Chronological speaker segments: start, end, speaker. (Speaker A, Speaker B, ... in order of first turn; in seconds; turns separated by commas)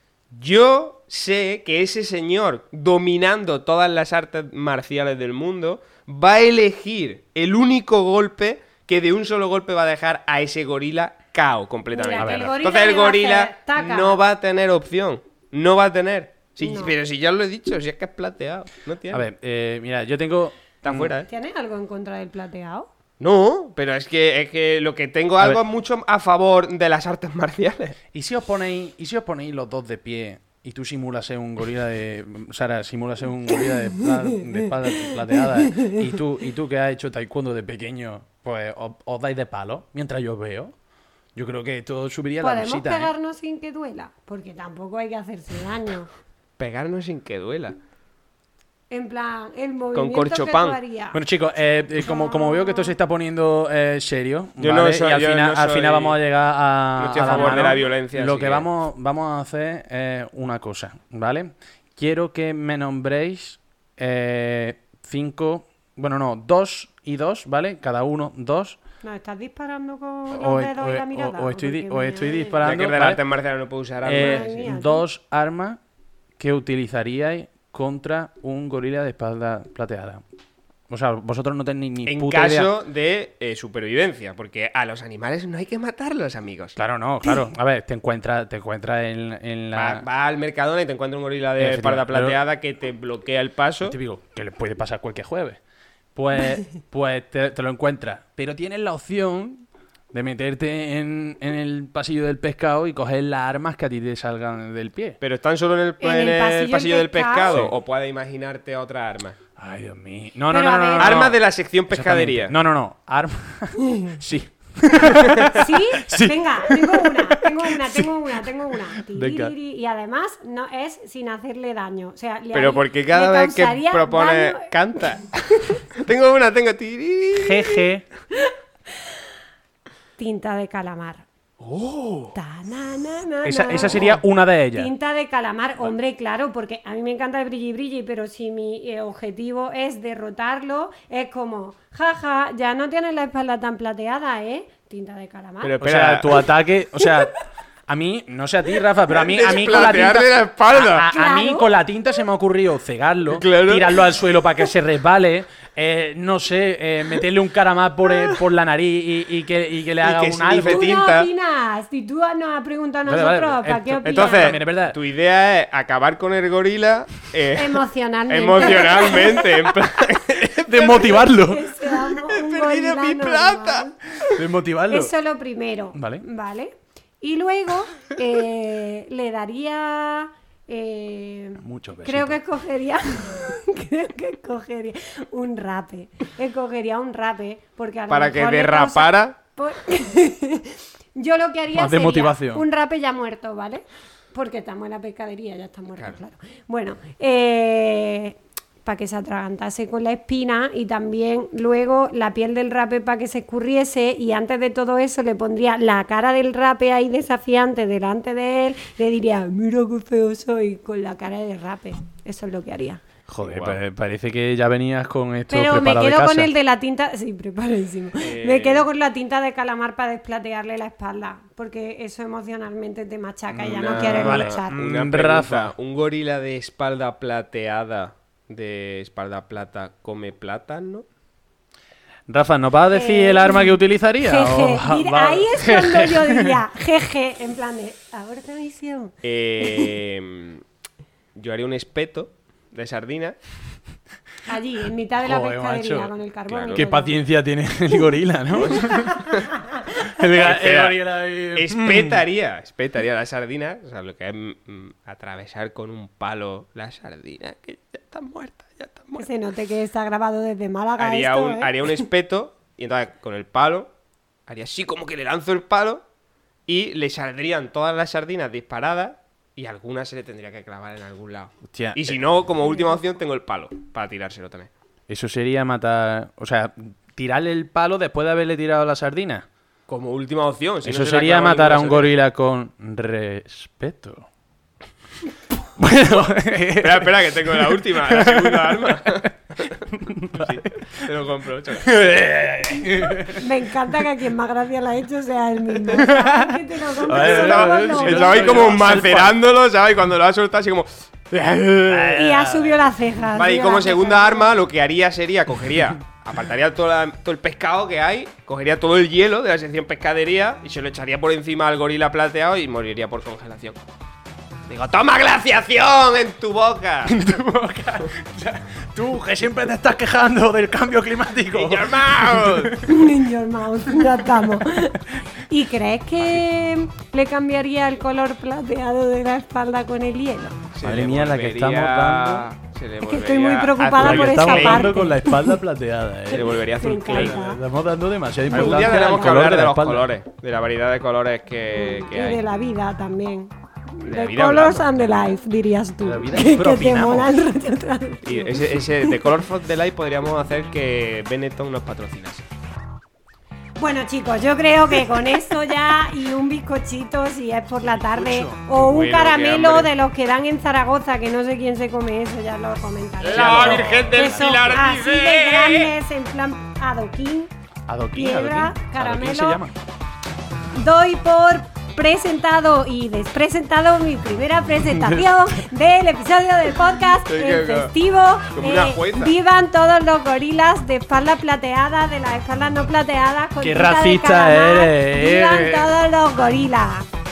Speaker A: 0.3-19.2, Speaker B: 11.9-14.2, Speaker C: 12.2-12.5, Speaker B: 16.6-16.9, Speaker C: 19.1-21.1, Speaker A: 20.8-21.3, Speaker B: 21.3-22.9, Speaker A: 23.2-27.9, Speaker C: 28.1-40.7, Speaker B: 34.9-36.1, Speaker C: 41.3-43.1, Speaker B: 42.4-46.1, Speaker A: 46.6-47.8, Speaker B: 48.9-51.2, Speaker A: 49.9-50.8, Speaker C: 51.1-68.8, Speaker B: 52.0-52.9, Speaker A: 54.6-56.2, Speaker A: 57.0-58.7, Speaker B: 57.3-57.7, Speaker B: 69.0-72.7, Speaker C: 70.3-73.2, Speaker A: 72.6-74.7, Speaker C: 74.0-75.8, Speaker B: 74.2-75.0, Speaker C: 76.4-80.2, Speaker C: 80.9-82.7, Speaker A: 82.0-86.8, Speaker C: 86.8-90.0, Speaker A: 89.7-94.0, Speaker C: 91.6-92.4, Speaker C: 93.8-95.6, Speaker C: 96.1-105.2, Speaker A: 105.2-109.4, Speaker B: 106.0-107.6, Speaker C: 109.6-119.5, Speaker B: 110.5-111.2, Speaker A: 111.0-112.5, Speaker B: 113.9-114.1, Speaker B: 115.4-124.7, Speaker A: 122.5-127.8, Speaker C: 127.3-128.0, Speaker B: 130.2-131.2, Speaker A: 131.6-132.3, Speaker B: 132.3-134.2, Speaker C: 133.4-134.9, Speaker A: 133.8-134.2, Speaker B: 134.7-145.7, Speaker A: 145.6-146.4, Speaker C: 145.8-147.3, Speaker C: 147.9-161.0, Speaker A: 149.1-151.1, Speaker B: 150.8-151.7, Speaker A: 153.3-154.0, Speaker A: 160.0-161.3, Speaker B: 160.6-164.6, Speaker C: 163.1-165.0, Speaker A: 164.0-171.2, Speaker B: 167.5-169.6, Speaker C: 170.0-172.0, Speaker B: 171.1-213.0, Speaker A: 172.2-173.9, Speaker C: 174.2-175.1, Speaker C: 175.9-176.2, Speaker C: 181.6-182.4, Speaker A: 188.1-189.3, Speaker C: 191.7-192.6, Speaker C: 213.3-216.5, Speaker A: 213.4-213.8, Speaker B: 215.5-224.7, Speaker A: 218.2-218.9, Speaker C: 223.5-225.7, Speaker A: 223.6-231.0, Speaker C: 232.3-236.6, Speaker B: 232.9-239.9, Speaker A: 239.2-240.6, Speaker A: 241.3-243.3, Speaker B: 244.5-247.2, Speaker C: 245.2-246.1, Speaker A: 246.5-246.8, Speaker C: 246.7-249.2, Speaker A: 248.6-249.5, Speaker B: 248.7-250.0, Speaker C: 250.0-252.2, Speaker A: 250.4-251.0, Speaker A: 251.5-259.3, Speaker B: 259.2-261.9, Speaker A: 261.0-263.9, Speaker A: 264.5-266.0, Speaker A: 266.7-274.7, Speaker C: 271.7-272.2, Speaker C: 275.1-279.4, Speaker A: 279.9-282.1, Speaker C: 280.8-284.3, Speaker C: 285.6-291.1, Speaker A: 286.8-292.2, Speaker C: 291.8-293.4, Speaker B: 293.3-299.0, Speaker C: 295.9-299.4, Speaker A: 297.0-302.2, Speaker C: 301.9-302.8, Speaker B: 302.1-304.5, Speaker A: 303.3-313.8, Speaker A: 314.7-317.1, Speaker C: 317.1-323.0, Speaker A: 321.5-322.8, Speaker B: 322.8-330.6, Speaker C: 324.0-325.1, Speaker A: 330.7-334.9, Speaker C: 330.8-332.4, Speaker B: 333.1-335.6, Speaker C: 334.0-340.1, Speaker A: 336.3-337.4, Speaker B: 336.7-337.6, Speaker A: 338.5-342.4, Speaker B: 338.5-339.3, Speaker B: 341.7-349.1, Speaker A: 344.0-345.1, Speaker C: 346.0-347.3, Speaker A: 348.2-352.5, Speaker B: 353.8-367.5, Speaker C: 357.9-358.6, Speaker A: 358.7-359.9, Speaker A: 363.2-365.9, Speaker C: 363.3-364.6, Speaker C: 367.9-369.7, Speaker B: 368.1-369.6, Speaker B: 370.7-387.1, Speaker C: 374.9-375.5, Speaker A: 377.1-377.9, Speaker A: 378.5-379.3, Speaker C: 383.6-385.9